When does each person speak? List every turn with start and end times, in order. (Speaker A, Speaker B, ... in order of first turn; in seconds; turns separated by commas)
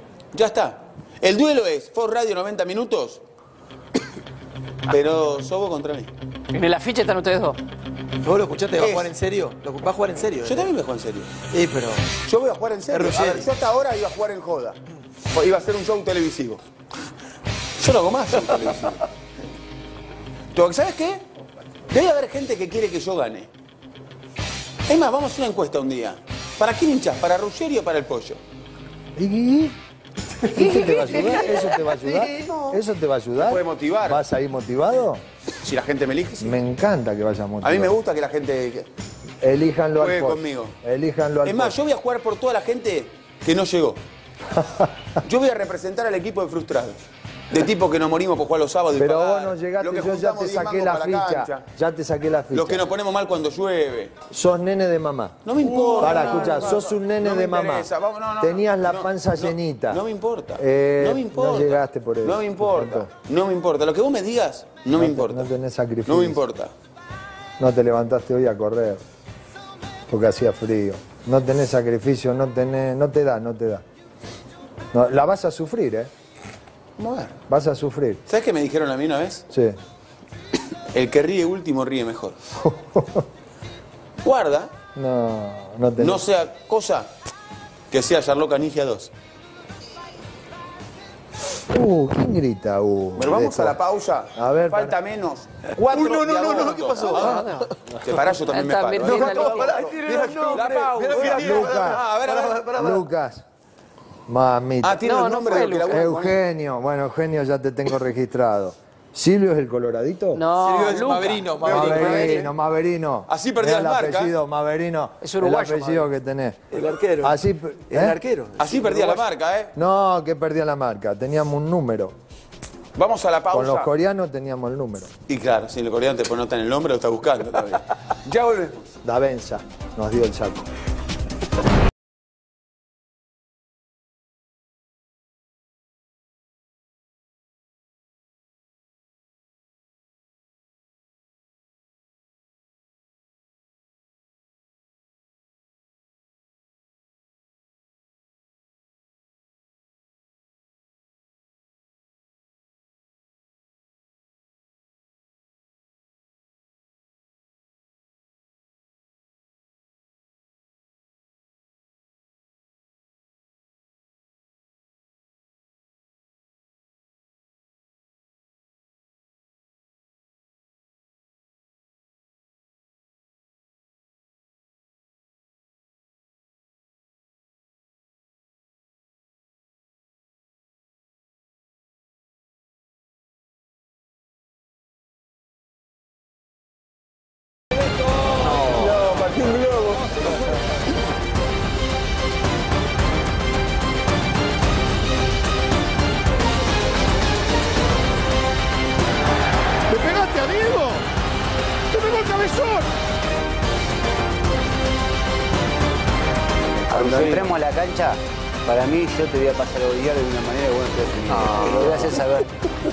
Speaker A: 0.3-3.2, Speaker A: 4.9-6.1, Speaker B: 6.5-7.6, Speaker C: 8.2-10.7, Speaker A: 8.8-9.1, Speaker A: 10.4-11.3, Speaker C: 11.5-12.2, Speaker A: 12.3-14.8, Speaker C: 12.9-13.5, Speaker A: 15.3-16.6, Speaker A: 17.8-19.1, Speaker A: 20.5-21.2, Speaker A: 21.9-23.5, Speaker A: 24.9-28.4, Speaker D: 29.2-29.8, Speaker D: 30.5-35.2, Speaker A: 33.4-34.2, Speaker A: 35.6-36.6, Speaker D: 36.4-38.0, Speaker A: 37.6-38.9, Speaker D: 39.4-41.8, Speaker A: 40.0-40.8, Speaker A: 41.4-44.0, Speaker D: 44.6-44.9, Speaker A: 45.2-51.6, Speaker D: 48.9-52.9, Speaker A: 52.5-54.1, Speaker D: 54.3-57.9, Speaker A: 55.5-65.5, Speaker C: 55.9-56.3, Speaker D: 58.4-60.0, Speaker D: 60.6-63.1, Speaker D: 64.9-66.4, Speaker A: 66.1-66.7, Speaker D: 67.6-69.0, Speaker D: 70.1-73.8, Speaker D: 74.9-76.1, Speaker A: 77.0-77.4, Speaker D: 77.5-78.2, Speaker A: 78.3-79.5, Speaker D: 79.5-79.8, Speaker A: 80.9-82.4, Speaker D: 82.6-83.2, Speaker A: 84.2-84.7, Speaker D: 85.0-86.3, Speaker A: 86.0-87.1, Speaker A: 87.9-89.1, Speaker D: 91.7-93.8, Speaker A: 93.2-102.7, Speaker D: 94.4-95.0, Speaker C: 95.8-98.0, Speaker B: 97.0-97.7, Speaker B: 98.5-100.4, Speaker C: 99.0-103.0, Speaker D: 101.3-102.0, Speaker D: 102.8-103.5, Speaker D: 104.3-110.4, Speaker A: 104.8-106.4, Speaker B: 105.0-106.0, Speaker B: 110.3-112.5, Speaker C: 110.6-112.5, Speaker D: 111.7-116.6, Speaker A: 111.9-112.4, Speaker A: 113.3-114.3, Speaker B: 115.2-116.1, Speaker C: 116.7-119.2, Speaker D: 117.2-118.2, Speaker A: 118.6-119.7, Speaker D: 119.8-122.2, Speaker A: 123.0-123.9, Speaker D: 123.5-125.1, Speaker A: 125.3-128.9, Speaker D: 129.0-130.7, Speaker A: 188.6-190.0, Speaker E: 206.8-212.5, Speaker A: 206.9-207.6, Speaker A: 211.3-212.1